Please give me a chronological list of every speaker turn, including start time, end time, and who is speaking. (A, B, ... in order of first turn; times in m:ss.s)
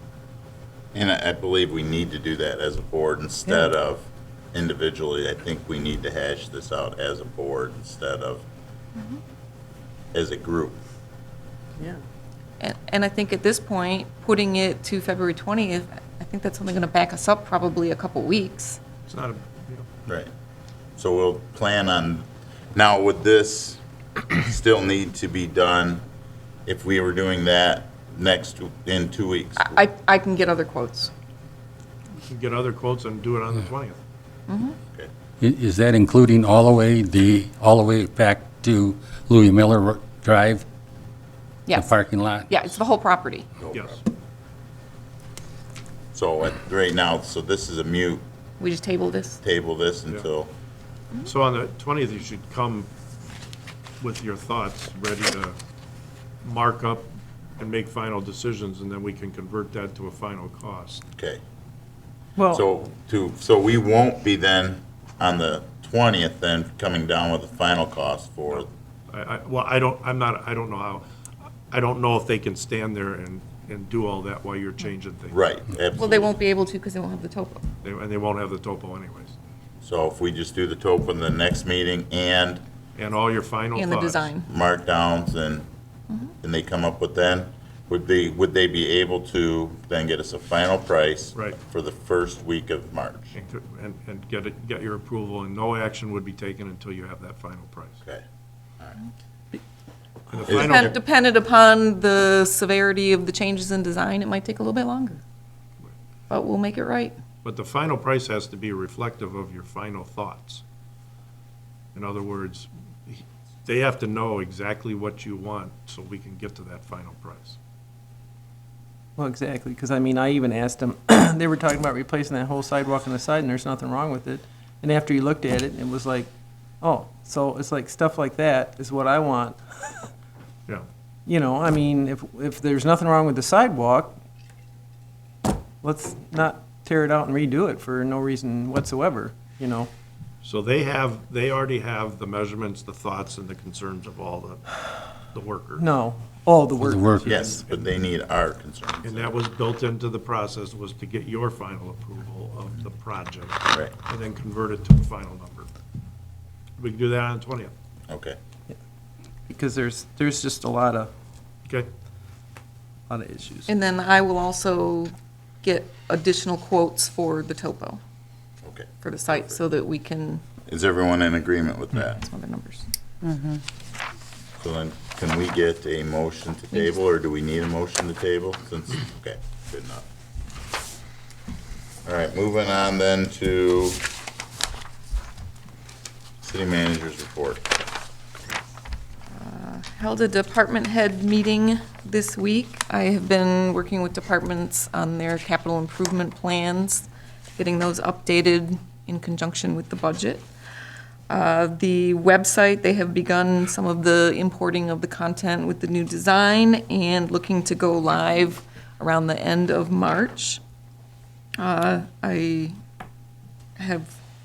0:00.9-0:08.4 A
0:10.1-0:10.8 A
0:11.8-0:12.0 B
0:12.6-0:18.8 C
0:19.1-0:19.9 D
0:20.1-0:20.3 A
0:21.0-0:26.0 A
0:26.7-0:29.8 A
0:29.6-0:31.1 C
0:32.3-0:34.0 D
0:34.5-0:34.8 C
0:35.4-0:40.6 E
0:41.8-0:42.6 E
0:42.5-0:43.5 C
0:43.6-0:44.0 A
0:43.7-0:44.0 D
0:46.1-0:48.2 A
0:48.6-0:49.4 C
0:49.4-0:50.5 A
0:51.2-0:52.9 D
0:54.0-0:55.6 D
0:56.4-1:01.0 D
1:01.2-1:01.4 A
1:02.4-1:02.6 B
1:02.5-1:08.7 A
1:08.5-1:11.0 D
1:11.7-1:15.5 D
1:15.3-1:16.4 A
1:16.0-1:17.7 C
1:17.8-1:19.4 D
1:19.8-1:22.6 A
1:23.0-1:24.3 D
1:23.8-1:24.5 C
1:24.4-1:25.7 A
1:26.4-1:33.3 A
1:31.3-1:31.6 D
1:33.3-1:38.0 D
1:40.3-1:40.9 D
1:40.5-1:40.9 A
1:40.5-1:45.2 C
1:46.3-1:47.2 C
1:47.4-1:50.6 D
1:51.9-1:57.6 D
1:59.2-2:10.1 B
2:11.3-2:14.2 B
2:15.8-2:19.9 B
2:20.4-2:25.9 D
2:25.8-2:27.6 B
2:26.8-2:27.3 E
2:27.3-2:29.3 A
2:29.0-2:35.7 D
2:36.8-2:37.7 D
2:38.1-2:38.4 A
2:39.5-2:41.1 B
2:43.1-2:43.7 B
2:43.7-2:48.0 C
2:48.6-2:49.6 A
2:49.0-2:50.4 C
2:50.7-2:52.2 A
2:52.1-2:52.9 C
2:53.2-2:53.6 E
2:54.6-3:00.0 A
3:02.0-3:04.0 A
3:06.4-3:07.6 A
3:09.3-3:20.5 C
3:21.3-3:30.6 C
3:31.6-3:32.7 C
3:33.8-3:34.2 C